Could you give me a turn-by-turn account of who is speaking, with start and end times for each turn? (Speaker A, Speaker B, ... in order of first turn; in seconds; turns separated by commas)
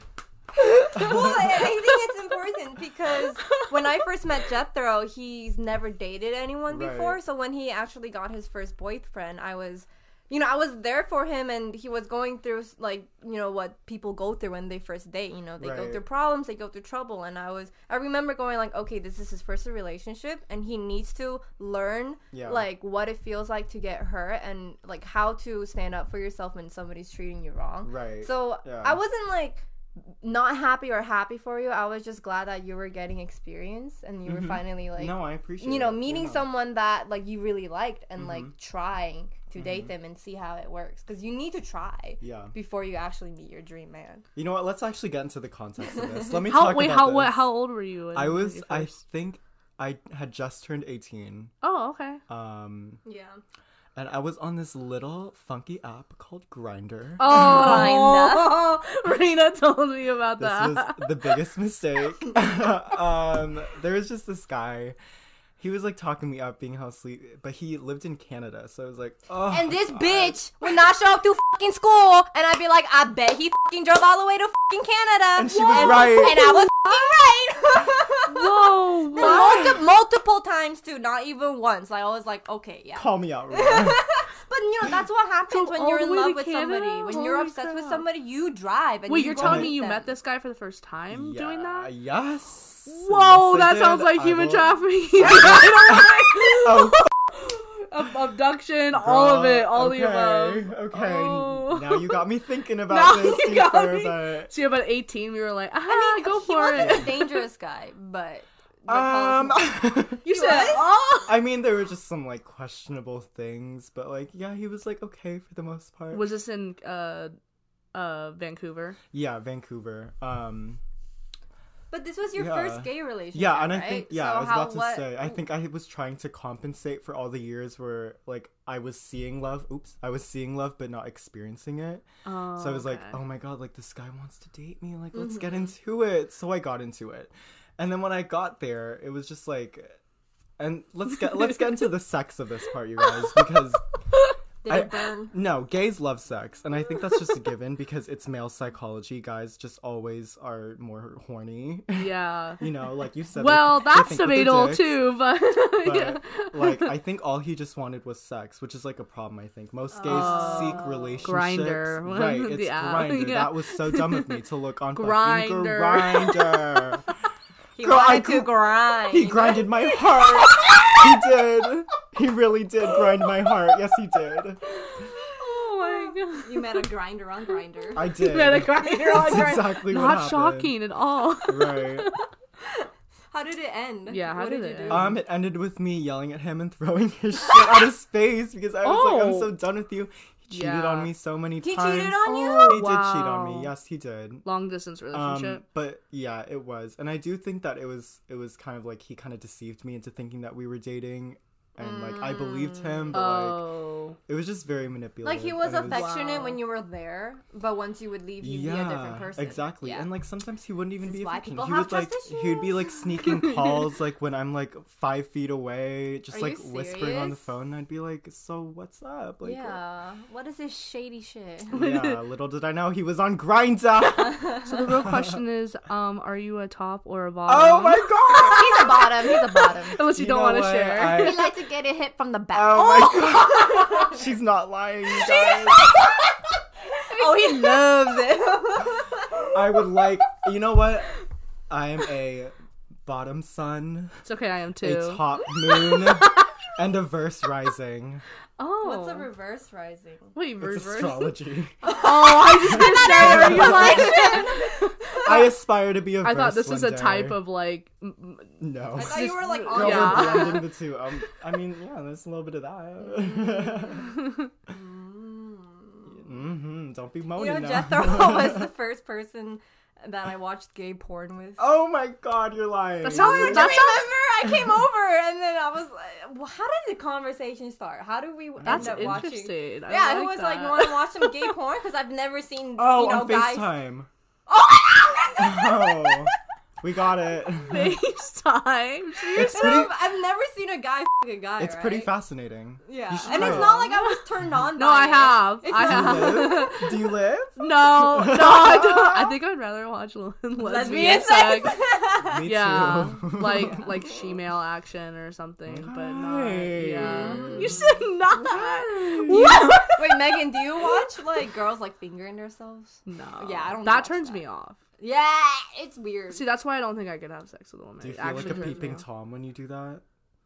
Speaker A: 0.6-44.3, Speaker B: 0.9-1.6, Speaker B: 6.7-7.2, Speaker B: 15.6-16.0, Speaker B: 22.3-22.7, Speaker B: 27.8-29.0, Speaker B: 34.3-36.5, Speaker B: 38.2-38.5, Speaker B: 39.6-39.9, Speaker B: 42.2-42.5, Speaker B: 44.4-47.5, Speaker C: 46.4-49.0, Speaker B: 48.1-51.5, Speaker C: 51.6-52.2, Speaker B: 52.3-53.0, Speaker A: 53.0-53.4, Speaker B: 54.0-57.5, Speaker C: 57.2-61.4, Speaker A: 57.2-58.6, Speaker B: 60.4-65.0, Speaker B: 65.6-70.4, Speaker A: 69.5-90.1, Speaker B: 75.3-76.7, Speaker C: 78.2-79.8, Speaker B: 79.2-79.7, Speaker B: 83.0-84.0, Speaker C: 85.5-88.0, Speaker C: 89.1-91.9, Speaker B: 89.3-89.8, Speaker B: 91.1-97.1, Speaker C: 92.9-102.2, Speaker A: 95.3-96.2, Speaker B: 98.9-104.5, Speaker C: 102.9-107.5, Speaker A: 105.9-111.0, Speaker B: 106.7-107.1, Speaker B: 108.9-110.7, Speaker C: 110.2-111.4, Speaker B: 111.2-116.3, Speaker C: 116.1-117.4, Speaker C: 117.9-119.0, Speaker B: 119.1-120.8, Speaker A: 121.9-125.4, Speaker B: 122.3-140.0, Speaker C: 132.2-133.2, Speaker A: 135.2-135.7, Speaker B: 140.6-143.8, Speaker A: 144.6-145.4, Speaker B: 144.7-155.1, Speaker C: 151.9-152.7, Speaker C: 153.3-157.0, Speaker B: 155.7-167.1, Speaker A: 159.9-161.3, Speaker C: 160.1-164.4, Speaker C: 164.9-166.8, Speaker A: 167.8-169.7, Speaker B: 167.8-175.1, Speaker C: 169.9-171.0, Speaker A: 175.2-179.7, Speaker C: 175.2-177.0, Speaker B: 177.9-180.8, Speaker C: 178.0-182.2, Speaker B: 181.4-182.1, Speaker A: 182.6-185.2, Speaker C: 184.1-185.2, Speaker B: 184.9-194.4, Speaker C: 188.8-189.6, Speaker C: 190.5-191.1, Speaker A: 191.6-192.8, Speaker C: 192.2-193.7, Speaker C: 194.4-195.6, Speaker B: 195.1-203.7, Speaker A: 201.8-203.2, Speaker C: 203.1-204.2, Speaker B: 204.3-206.2, Speaker A: 205.2-210.1, Speaker C: 205.7-206.6, Speaker B: 208.4-219.8, Speaker A: 211.0-213.1, Speaker A: 216.3-217.5, Speaker A: 219.4-221.8, Speaker B: 221.7-225.4, Speaker C: 221.7-222.2, Speaker C: 224.6-228.1, Speaker B: 227.5-231.6, Speaker A: 228.3-230.0, Speaker C: 229.9-231.5, Speaker A: 231.1-234.2, Speaker B: 232.5-235.9, Speaker A: 235.1-236.3, Speaker A: 237.0-240.1, Speaker B: 239.5-241.2, Speaker B: 241.7-244.2, Speaker C: 244.2-246.4, Speaker B: 244.8-248.2, Speaker C: 248.6-249.3, Speaker A: 248.8-250.4, Speaker C: 250.3-254.9, Speaker B: 250.6-251.9, Speaker A: 251.8-255.4, Speaker B: 252.4-254.4, Speaker B: 255.2-257.5, Speaker C: 256.2-260.7, Speaker B: 258.6-264.2, Speaker A: 258.9-260.7, Speaker A: 263.1-266.2, Speaker B: 266.1-268.7, Speaker A: 267.4-271.7, Speaker B: 271.6-273.8, Speaker A: 273.0-283.7, Speaker C: 273.0-274.1, Speaker B: 274.4-274.8, Speaker B: 278.6-279.3, Speaker C: 278.6-281.3, Speaker B: 282.8-284.1, Speaker A: 284.5-286.3, Speaker B: 285.4-288.0, Speaker C: 287.6-289.9, Speaker A: 289.3-292.1, Speaker B: 289.3-289.9, Speaker B: 291.6-293.9, Speaker A: 292.9-296.7, Speaker C: 293.2-294.2, Speaker C: 294.8-310.4, Speaker B: 295.7-299.4, Speaker A: 300.6-302.4, Speaker B: 302.1-304.0, Speaker A: 303.4-304.4, Speaker B: 305.7-309.8, Speaker A: 307.0-308.1, Speaker A: 309.3-314.4, Speaker C: 313.1-314.8, Speaker A: 315.0-316.4, Speaker C: 316.3-319.1, Speaker B: 318.0-320.0